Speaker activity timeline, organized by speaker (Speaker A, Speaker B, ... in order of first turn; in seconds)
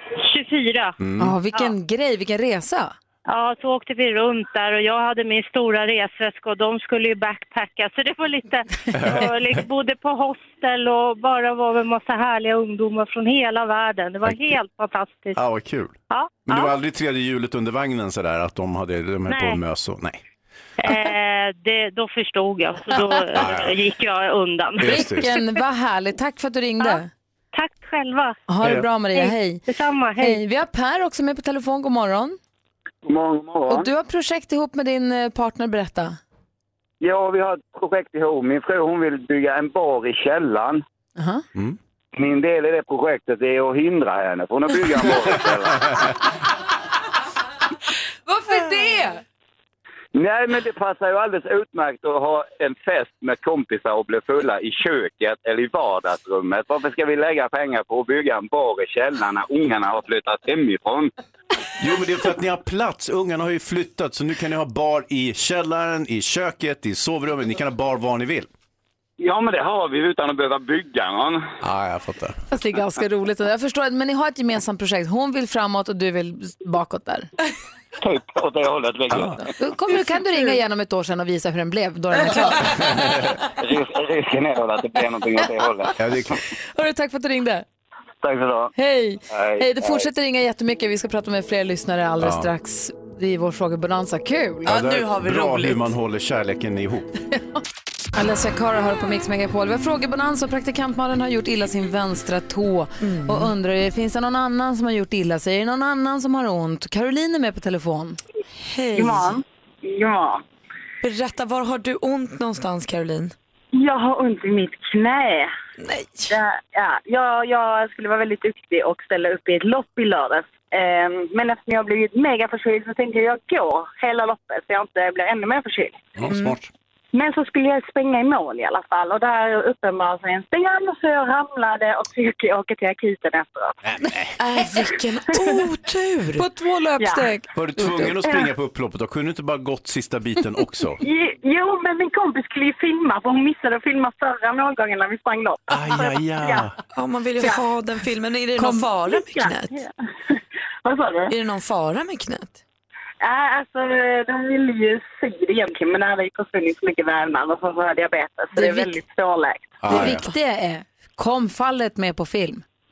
Speaker A: 0.2-1.0, 3.3-15.4, 16.1-16.7, 19.3-19.6, 20.8-25.4, 27.5-28.4, 29.1-30.4
Speaker B: 1.0-1.4, 8.9-9.6, 14.2-14.6, 15.3-20.2, 23.3-23.8, 24.8-25.3, 61.8-68.5, 71.6-72.4, 79.1-79.4, 82.7-83.4, 86.0-86.4, 92.2-92.5, 94.7-97.1, 126.2-126.7, 133.8-134.4, 137.5-141.0, 145.7-146.8, 159.8-160.3
Speaker C: 1.2-2.9, 24.8-27.1, 28.5-29.6, 30.2-32.4, 33.7-36.2, 41.2-41.4, 48.3-49.2, 72.5-77.3, 79.4-83.1, 86.7-87.6, 88.8-94.7, 98.1-108.2, 136.4-138.2, 148.6-148.9, 158.6-159.0, 159.9-162.6
Speaker D: 33.1-33.9, 37.0-40.8, 42.1-45.9, 50.1-61.1, 69.2-71.5, 78.0-79.4, 83.6-85.9, 88.2-88.7, 89.3-90.1
Speaker E: 94.7-95.9, 103.0-103.5, 108.6-109.4, 111.0-113.3, 115.8-116.4, 126.3-126.6, 134.4-136.4, 146.9-149.8, 151.3-152.6
Speaker F: 109.0-110.4, 113.8-115.5, 116.3-126.0, 127.1-133.7, 137.0-137.3, 141.0-146.7, 149.1-149.6, 150.8-151.3, 153.2-159.7